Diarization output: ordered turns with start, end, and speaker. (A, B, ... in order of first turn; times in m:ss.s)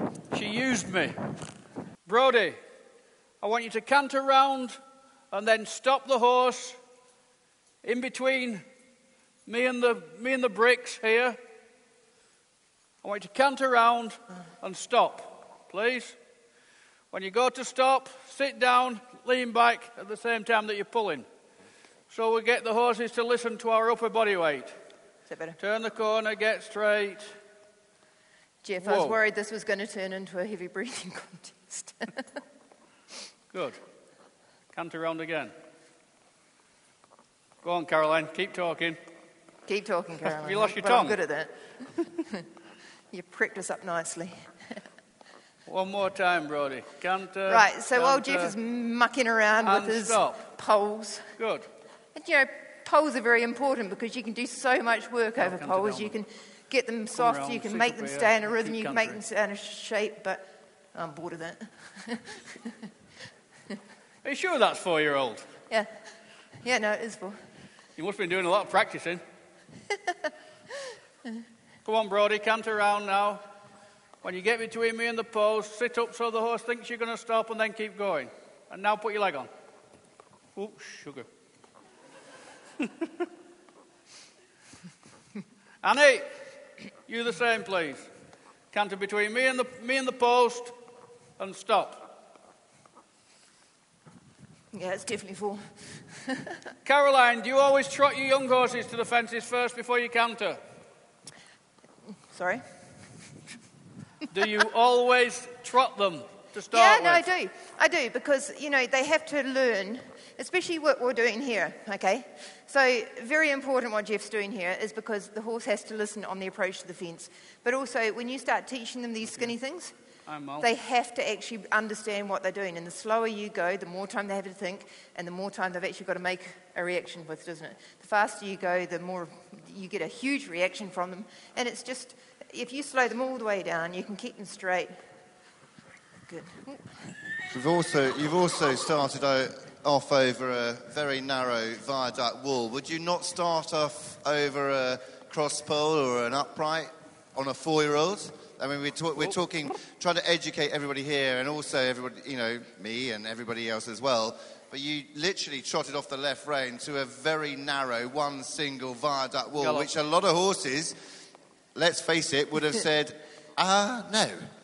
0:00.3-0:01.2 A
0:02.0-0:02.6 A
0:03.4-0:04.8 A
0:05.3-0:06.8 A
0:07.8-0:08.6 A
0:09.5-0:11.4 A
0:13.0-0:16.2 A
0:17.1-0:21.3 A
0:22.1-0:24.8 A
0:25.3-0:25.6 B
0:25.6-0:27.4 A
0:28.6-0:32.3 B
0:28.8-0:29.2 A
0:33.5-0:33.8 A
0:34.7-0:35.5 A
0:37.6-0:39.0 A
0:39.7-0:42.4 B
0:40.2-0:41.2 A
0:43.1-0:44.8 B
0:45.7-0:48.6 A
0:47.5-0:51.3 B
0:49.6-0:50.4 A
0:51.4-0:51.7 A
0:52.2-1:02.8 B
0:55.4-0:56.2 A
0:57.2-0:59.2 A
1:04.2-1:05.5 A
1:06.6-1:07.4 B
1:08.0-1:09.2 A
1:11.8-1:13.4 A
1:14.2-1:19.5 A
1:20.6-1:21.3 A
1:22.8-1:23.1 A
1:25.8-1:26.3 A
1:27.1-1:28.1 A
1:28.7-1:30.8 A
1:31.4-1:32.0 A
1:34.7-1:36.6 B
1:36.8-1:40.6 A
1:42.3-1:42.8 B
1:44.3-1:47.3 A
1:46.7-1:59.9 B
2:00.3-2:00.7 A
2:00.6-2:15.0 B
2:16.3-2:16.9 B
2:17.5-2:41.0 C
2:39.6-2:39.9 A
2:41.8-2:44.5 C